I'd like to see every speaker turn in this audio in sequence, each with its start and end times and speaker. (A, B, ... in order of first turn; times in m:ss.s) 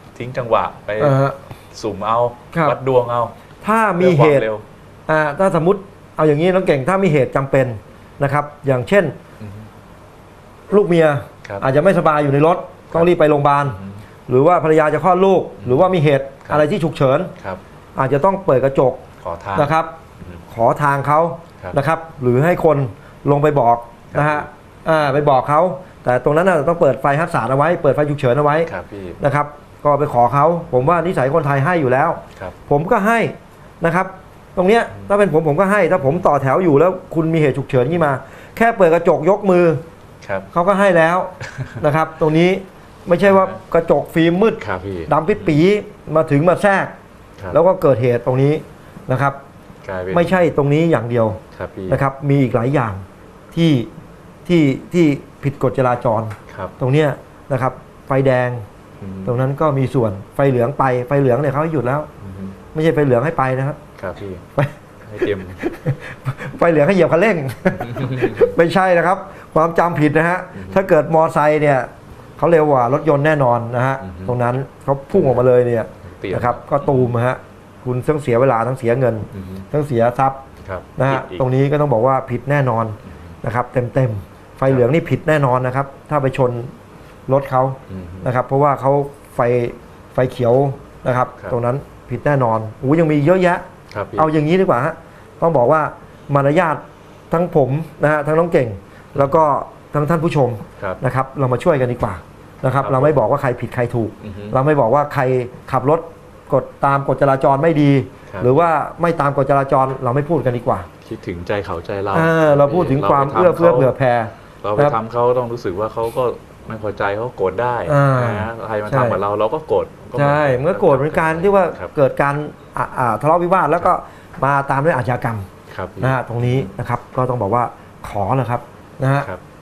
0:00.2-0:03.3 A
0:01.0-0:01.4 B
0:02.5-0:02.8 B
0:03.6-0:04.5 B
0:04.0-0:04.6 A
0:05.1-0:09.2 B
0:09.4-0:09.7 A
0:10.7-0:17.3 B
0:13.6-0:14.0 A
0:15.6-0:15.9 A
0:18.0-0:19.0 B
0:19.2-0:20.4 A
0:19.6-0:19.9 B
0:20.5-0:39.8 B
0:24.1-0:24.5 A
0:28.6-0:29.2 A
0:36.0-0:36.2 A
0:40.2-0:40.5 A
0:40.5-0:46.9 B
0:43.2-0:43.6 A
0:44.6-0:45.5 A
0:47.5-0:49.4 B
0:49.8-0:50.5 A
0:50.1-0:53.9 B
0:51.5-0:52.0 A
0:54.4-0:58.6 B
0:56.5-0:56.8 A
0:59.0-0:59.4 A
0:59.2-1:02.1 B
1:02.2-1:02.6 A
1:02.7-1:03.8 B
1:04.0-1:04.4 A
1:04.6-1:20.4 B
1:05.0-1:05.6 A
1:07.8-1:08.5 A
1:10.6-1:10.9 A
1:14.0-1:14.6 A
1:15.1-1:15.5 A
1:16.1-1:17.2 A
1:19.3-1:19.7 A
1:20.6-1:21.4 A
1:21.0-1:26.7 B
1:27.3-1:33.6 B
1:27.9-1:28.3 A
1:33.9-1:34.3 A
1:34.2-1:50.9 B
1:42.8-1:43.2 A
1:44.2-1:44.6 A
1:51.0-1:53.9 A
1:52.1-1:55.0 B
1:54.6-2:01.9 A
1:57.9-1:59.2 B
2:00.2-2:05.5 B
2:05.7-2:06.7 A
2:06.0-2:09.3 B